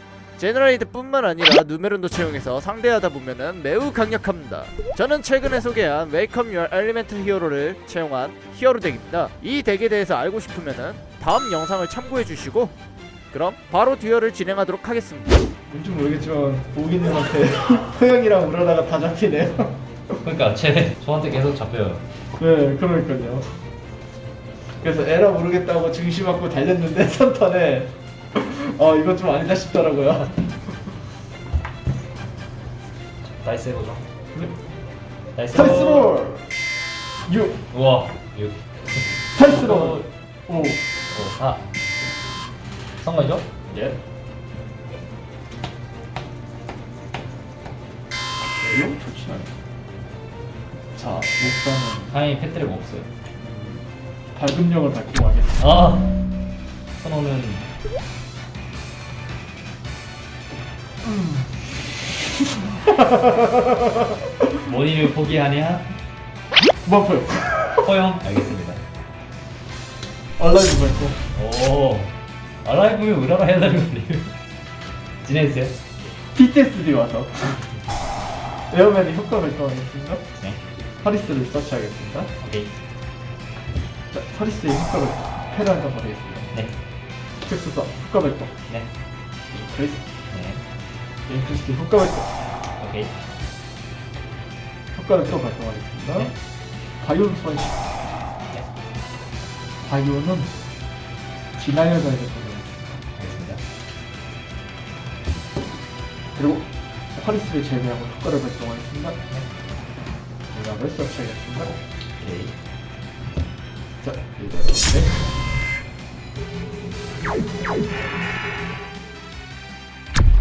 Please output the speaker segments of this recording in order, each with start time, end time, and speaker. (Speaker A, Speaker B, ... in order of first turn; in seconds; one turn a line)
Speaker A: 0.4-12.8
Speaker A: 13.3-15.4
Speaker B: 15.7-19.8
Speaker C: 20.2-22.0
Speaker B: 22.4-23.5
Speaker B: 24.8-30.8
Speaker C: 33.2-34.0
Speaker C: 35.4-36.2
Speaker B: 35.5-36.5
Speaker B: 37.3-37.6
Speaker C: 37.7-40.1
Speaker B: 39.4-40.8
Speaker C: 41.1-41.7
Speaker C: 43.0-43.5
Speaker B: 43.7-44.0
Speaker B: 48.6-49.5
Speaker B: 51.0-52.1
Speaker C: 52.1-53.1
Speaker B: 53.4-55.6
Speaker C: 55.6-56.2
Speaker C: 57.0-57.6
Speaker B: 61.0-61.7
Speaker B: 62.6-63.9
Speaker C: 64.6-65.9
Speaker B: 66.8-67.8
Speaker C: 67.8-68.8
Speaker B: 70.4-71.2
Speaker C: 71.3-72.1
Speaker C: 72.6-74.3
Speaker C: 75.2-75.8
Speaker B: 76.3-77.6
Speaker B: 78.7-80.3
Speaker C: 80.4-80.6
Speaker B: 81.0-82.3
Speaker C: 82.4-82.7
Speaker B: 84.1-86.5
Speaker B: 87.4-88.5
Speaker B: 89.5-90.1
Speaker C: 90.3-90.6
Speaker B: 91.3-92.5
Speaker C: 92.7-93.1
Speaker B: 94.9-96.3
Speaker B: 97.0-97.8
Speaker B: 99.8-100.5
Speaker B: 101.5-102.7
Speaker C: 103.2-103.6
Speaker B: 106.3-109.2
Speaker B: 110.5-111.8
Speaker C: 112.2-112.5
Speaker B: 114.0-115.2